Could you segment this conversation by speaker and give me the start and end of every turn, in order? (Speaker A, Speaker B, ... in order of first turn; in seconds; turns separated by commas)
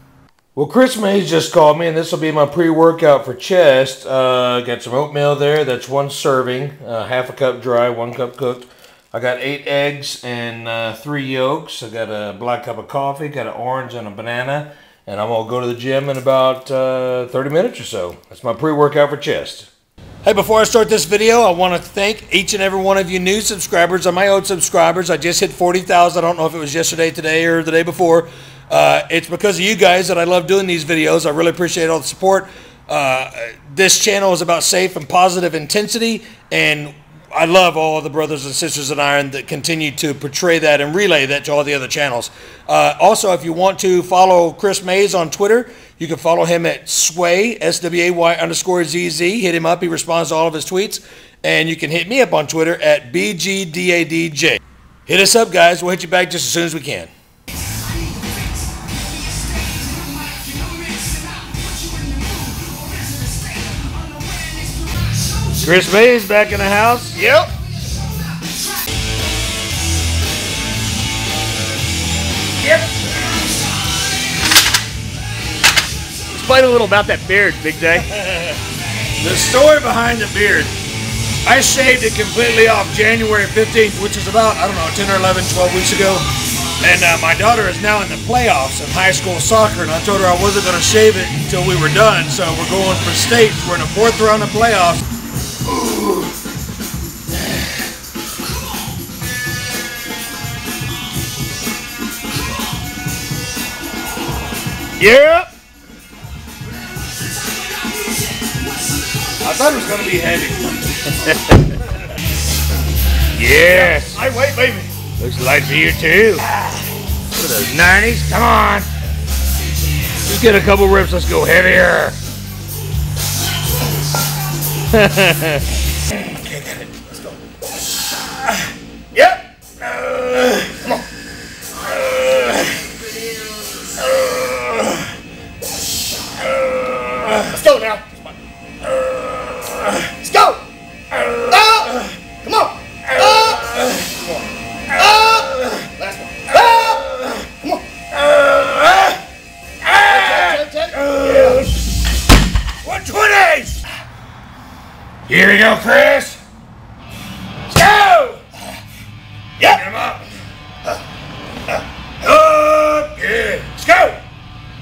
Speaker A: 0.5-19.7, Speaker A: 20.2-57.1, Speaker A: 65.6-67.2, Speaker B: 67.1-67.5, Speaker B: 76.3-78.1, Speaker A: 78.2-78.5, Speaker A: 79.2-80.7, Speaker A: 81.4-86.2, Speaker A: 86.8-95.0, Speaker B: 105.0-105.5, Speaker A: 109.4-110.8, Speaker A: 113.3-114.2, Speaker B: 113.7-114.9, Speaker A: 115.2-116.4, Speaker A: 117.3-118.9, Speaker A: 120.2-122.2, Speaker A: 124.9-125.6, Speaker A: 126.2-127.2, Speaker B: 129.1-129.4, Speaker A: 129.9-130.6, Speaker A: 132.1-132.4, Speaker B: 137.3-138.3, Speaker B: 139.8-140.6, Speaker B: 141.3-147.8, Speaker A: 148.3-149.1, Speaker A: 149.8-151.7, Speaker B: 150.0-151.6, Speaker A: 152.8-153.8, Speaker A: 155.3-156.4, Speaker A: 157.7-158.4, Speaker A: 159.6-160.2, Speaker A: 162.2-164.2